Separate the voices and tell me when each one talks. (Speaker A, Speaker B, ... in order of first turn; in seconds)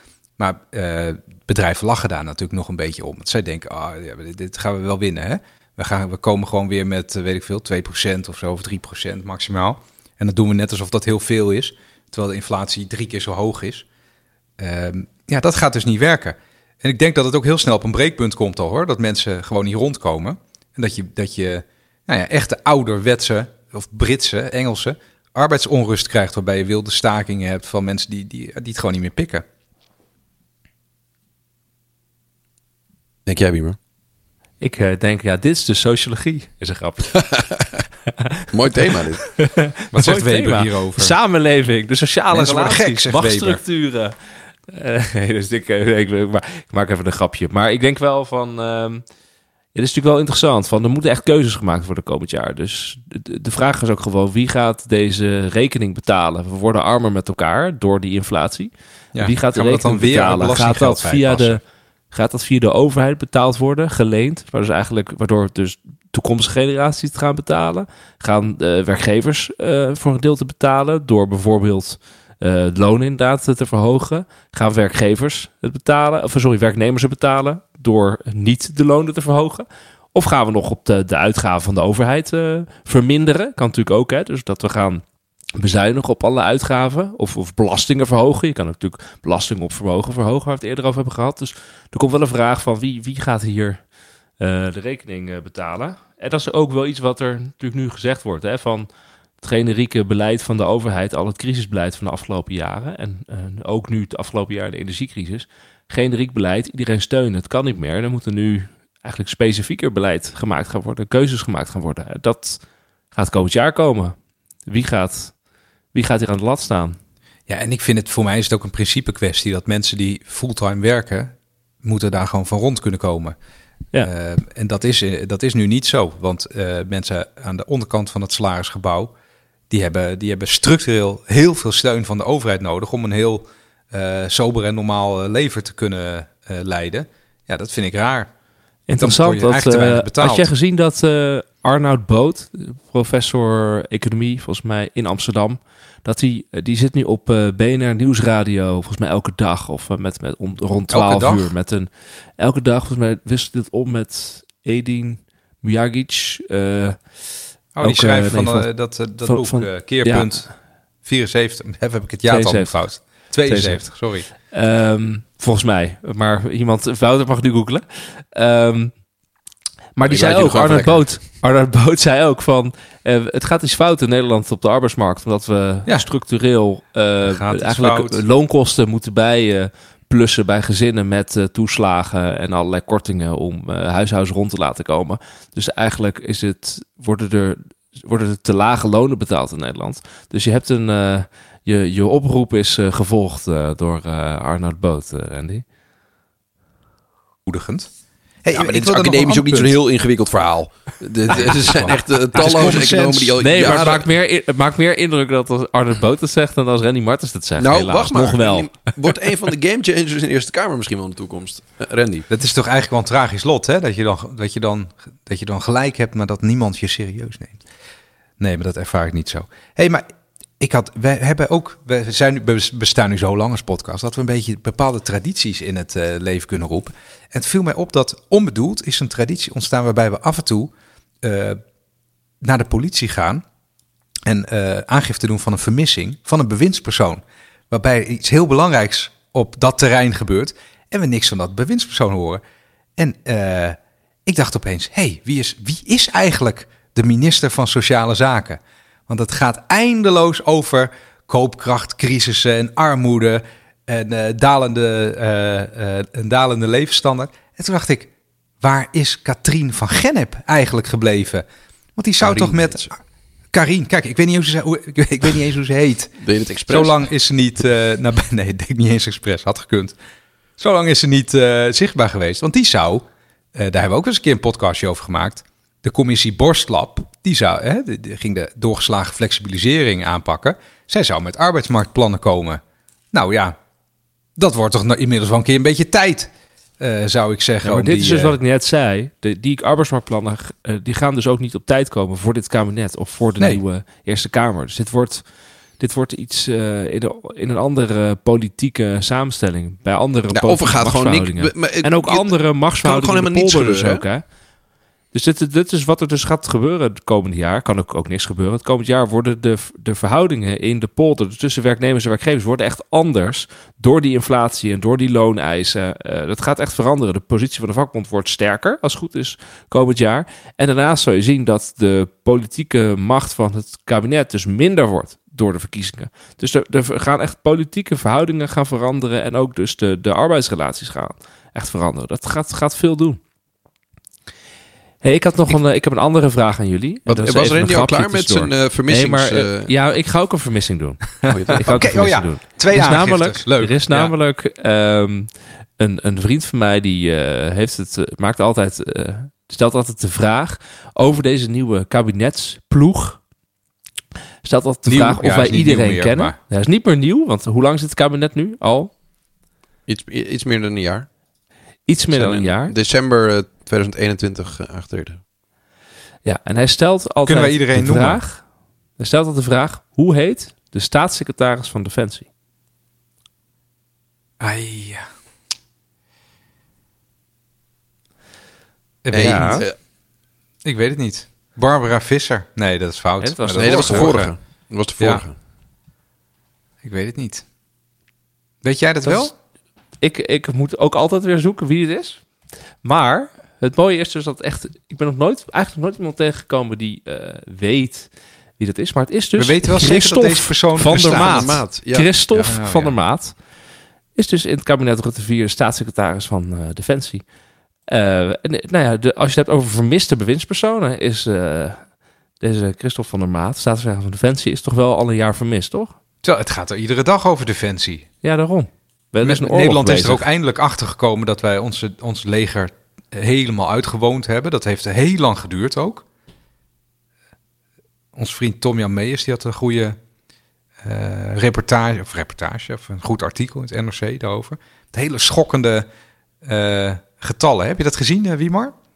Speaker A: 0.4-13.8, 14.6-29.4, 39.9-41.1, 42.3-43.6, 59.1-61.6, 117.5-123.3, 124.0-129.1, 129.7-138.3, 138.9-140.5, 150.9-151.5, 157.7-160.5, 161.0-164.3, 177.2-178.2, 197.5-197.9, 198.4-199.8, 201.3-203.4, 212.3-217.6, 218.4-220.0, 220.6-231.6, 232.4-233.4, 234.2-242.4, 243.0-261.4, 262.0-262.9, 263.5-266.1, 266.7-269.9, 270.6-282.6, 283.1-283.6, 284.4-288.4, 341.6-344.1, 354.9-356.4, 367.2-368.2, 374.4-375.1, 379.0-379.6, 380.6-384.3, 386.8-387.4, 388.6-389.3, 399.4-401.6, 402.3-402.9, 416.2-418.1, 419.2-426.0, 428.1-430.0, 430.8-435.9, 436.4-438.7
Speaker B: 33.2-33.8, 37.1-37.8, 38.5-39.2, 170.1-171.1, 198.5-204.1, 207.6-212.3, 262.2-262.9, 266.2-267.0, 300.3-304.0, 337.1-339.7, 341.3-341.9, 359.9-361.1, 362.1-365.2, 379.1-379.7, 383.6-385.3, 400.9-402.1
Speaker C: 34.6-37.2, 38.2-44.1, 44.7-49.0, 49.7-61.6, 62.1-85.0, 85.5-93.8, 94.4-98.9, 99.4-112.6, 113.1-114.1, 114.7-115.3, 115.9-117.0, 138.9-157.0, 157.8-158.7, 159.2-160.5, 162.3-162.7, 163.4-163.8, 164.4-168.9, 169.9-195.6, 202.4-202.8, 203.4-209.1, 287.6-295.2, 295.8-304.2, 305.1-333.2, 335.0-353.2, 354.4-358.9, 361.9-362.7, 366.2-368.4, 369.0-372.3, 379.1-379.6, 383.2-384.1, 389.0-389.3, 390.0-392.2, 392.8-403.3, 404.1-407.2, 407.9-411.8, 412.4-415.9, 418.2-420.2